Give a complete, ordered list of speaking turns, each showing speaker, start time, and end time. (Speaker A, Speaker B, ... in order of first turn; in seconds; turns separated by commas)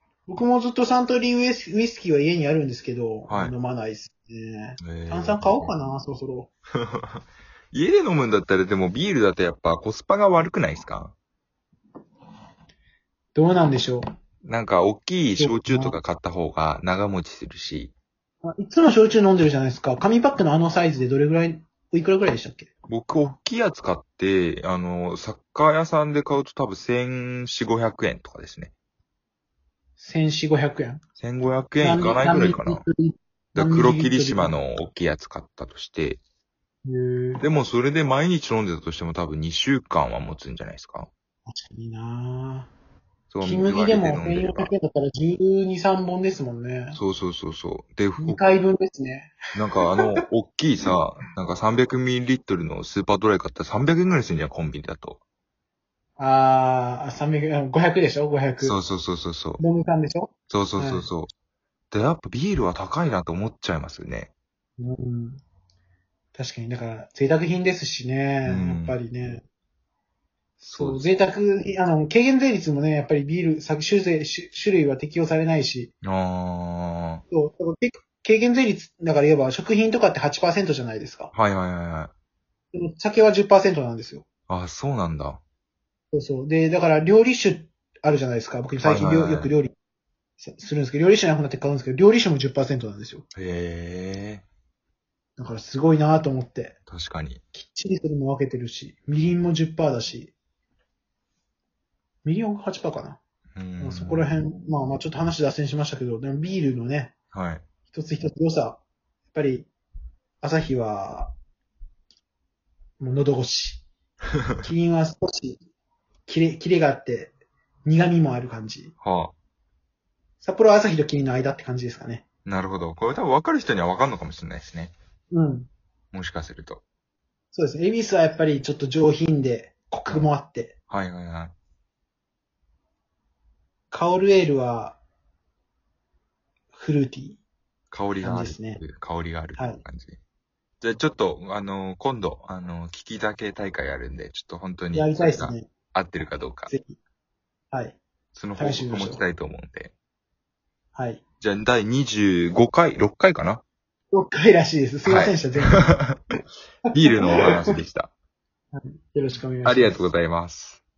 Speaker A: 0.3-6.5, Speaker B: 3.3-3.5, Speaker B: 4.8-5.7, Speaker B: 6.9-11.1, Speaker A: 13.3-14.0, Speaker B: 14.4-17.9, Speaker A: 15.4-16.0, Speaker A: 18.4-22.7, Speaker B: 22.9-28.7, Speaker A: 30.0-31.0, Speaker B: 31.2-32.8, Speaker A: 31.8-34.6, Speaker B: 33.5-36.2, Speaker A: 36.8-37.4, Speaker B: 37.4-41.1, Speaker A: 41.5-42.7, Speaker B: 43.3-44.7, Speaker A: 43.4-47.0, Speaker B: 46.9-48.5, Speaker A: 48.2-49.4, Speaker B: 49.5-55.2, Speaker A: 56.2-58.8, Speaker B: 58.6-59.6, Speaker A: 59.6-61.1, Speaker B: 60.5-61.3, Speaker B: 61.9-64.3, Speaker A: 64.8-65.4, Speaker A: 66.3-69.4, Speaker B: 68.4-69.0, Speaker A: 70.6-75.9, Speaker B: 70.7-71.0, Speaker B: 76.0-77.2, Speaker A: 77.3-81.3, Speaker B: 81.3-82.1, Speaker A: 82.7-84.2, Speaker B: 84.5-85.4, Speaker A: 86.1-89.7, Speaker B: 88.8-89.5, Speaker A: 90.4-93.2, Speaker B: 93.3-94.4, Speaker A: 95.4-96.8, Speaker B: 96.9-97.4, Speaker A: 97.5-100.3, Speaker A: 102.2-103.2, Speaker B: 103.5-104.3, Speaker A: 103.8-107.1, Speaker B: 107.3-107.6, Speaker A: 107.9-108.8, Speaker A: 109.3-109.7, Speaker A: 110.4-111.3, Speaker A: 113.0-113.8, Speaker A: 114.6-115.6, Speaker A: 116.3-117.3, Speaker A: 117.8-118.9, Speaker B: 119.0-119.3, Speaker A: 120.4-122.2, Speaker B: 122.5-124.9, Speaker A: 125.3-125.7, Speaker B: 126.1-126.8, Speaker A: 127.5-130.8, Speaker B: 130.9-131.5, Speaker A: 133.9-135.0, Speaker A: 136.7-137.4, Speaker B: 137.9-140.2, Speaker A: 138.2-138.8, Speaker A: 139.6-139.8, Speaker B: 140.8-146.7, Speaker A: 144.9-145.7, Speaker A: 146.7-146.9, Speaker A: 147.7-148.0, Speaker B: 148.3-149.9, Speaker A: 148.6-149.2, Speaker A: 150.9-151.2, Speaker B: 151.4-153.6, Speaker A: 154.1-155.9, Speaker B: 155.0-156.2, Speaker A: 156.9-157.7, Speaker B: 156.9-158.1, Speaker A: 158.7-160.0, Speaker B: 159.6-160.8